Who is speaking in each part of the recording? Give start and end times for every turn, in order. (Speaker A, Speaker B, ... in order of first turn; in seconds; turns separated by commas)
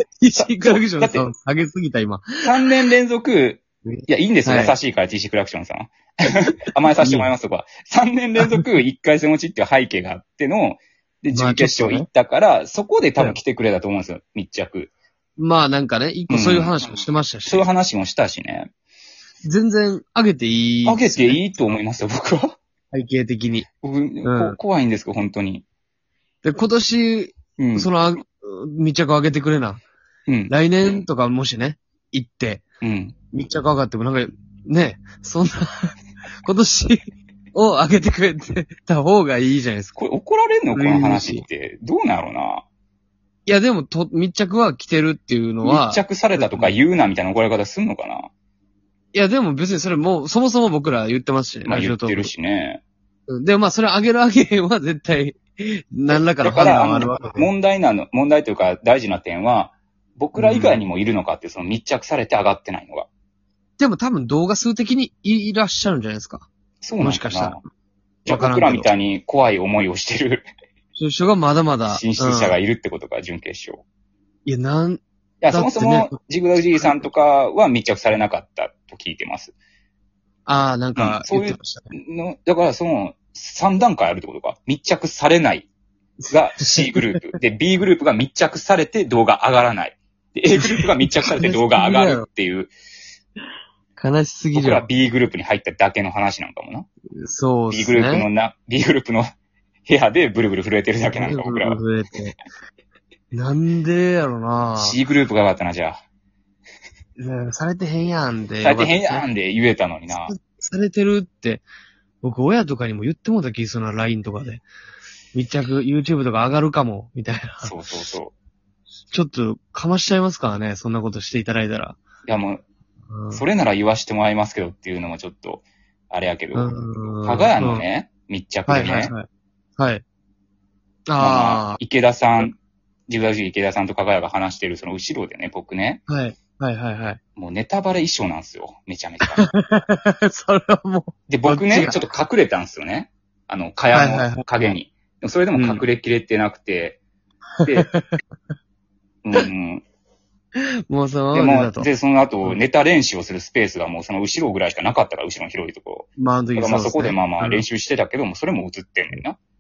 Speaker A: 0.2-2.5, Speaker B: 0.3-1.3, Speaker B: 2.4-14.9, Speaker A: 3.9-4.7, Speaker A: 7.0-7.3, Speaker A: 8.4-8.7, Speaker A: 11.3-12.1, Speaker A: 15.4-17.7, Speaker B: 16.3-16.8, Speaker B: 17.4-18.7, Speaker A: 19.4-21.4, Speaker B: 20.8-22.6, Speaker A: 22.9-23.7, Speaker B: 23.8-25.6, Speaker A: 24.2-24.6, Speaker A: 26.4-29.8, Speaker B: 27.6-27.9, Speaker B: 30.3-30.5, Speaker A: 30.5-32.6, Speaker B: 32.8-33.1, Speaker A: 33.3-40.0, Speaker B: 40.0-42.6, Speaker A: 40.7-41.5, Speaker A: 43.5-46.8, Speaker B: 45.6-48.3, Speaker A: 49.1-52.3, Speaker B: 51.6-52.8, Speaker A: 53.3-57.5, Speaker B: 56.1-63.1, Speaker A: 60.4-60.8, Speaker A: 63.8-66.5, Speaker B: 66.8-67.6, Speaker A: 67.0-67.6, Speaker A: 68.2-68.9, Speaker B: 68.2-70.5, Speaker A: 71.0-72.6, Speaker B: 71.9-73.8, Speaker A: 74.5-76.2, Speaker B: 75.4-79.5, Speaker A: 76.7-77.1, Speaker A: 80.5-81.9, Speaker B: 81.0-85.7, Speaker A: 86.2-87.3, Speaker B: 86.3-92.7, Speaker A: 90.5-92.3, Speaker A: 94.0-94.9, Speaker B: 94.5-96.9, Speaker A: 97.2-98.3, Speaker B: 97.7-99.3, Speaker B: 99.8-101.8, Speaker A: 101.1-102.3, Speaker A: 103.3-105.0, Speaker B: 104.8-106.0, Speaker A: 107.2-109.2, Speaker B: 108.6-110.3, Speaker A: 110.1-111.6, Speaker A: 112.2-114.6, Speaker A: 115.3-117.7, Speaker B: 117.6-118.3, Speaker A: 119.1-122.0, Speaker B: 122.2-122.6, Speaker A: 123.1-123.4, Speaker B: 123.3-129.1, Speaker A: 126.5-127.8, Speaker A: 128.7-129.2, Speaker A: 129.8-130.0, Speaker A: 131.1-131.8, Speaker B: 131.2-136.0, Speaker A: 136.1-137.2, Speaker B: 137.3-139.5, Speaker A: 139.2-142.0, Speaker B: 141.3-147.0, Speaker A: 143.9-144.7, Speaker A: 145.5-145.8, Speaker A: 147.6-148.2, Speaker B: 147.6-147.9, Speaker B: 149.2-149.8, Speaker A: 150.9-151.9, Speaker B: 151.3-159.4, Speaker A: 156.2-157.6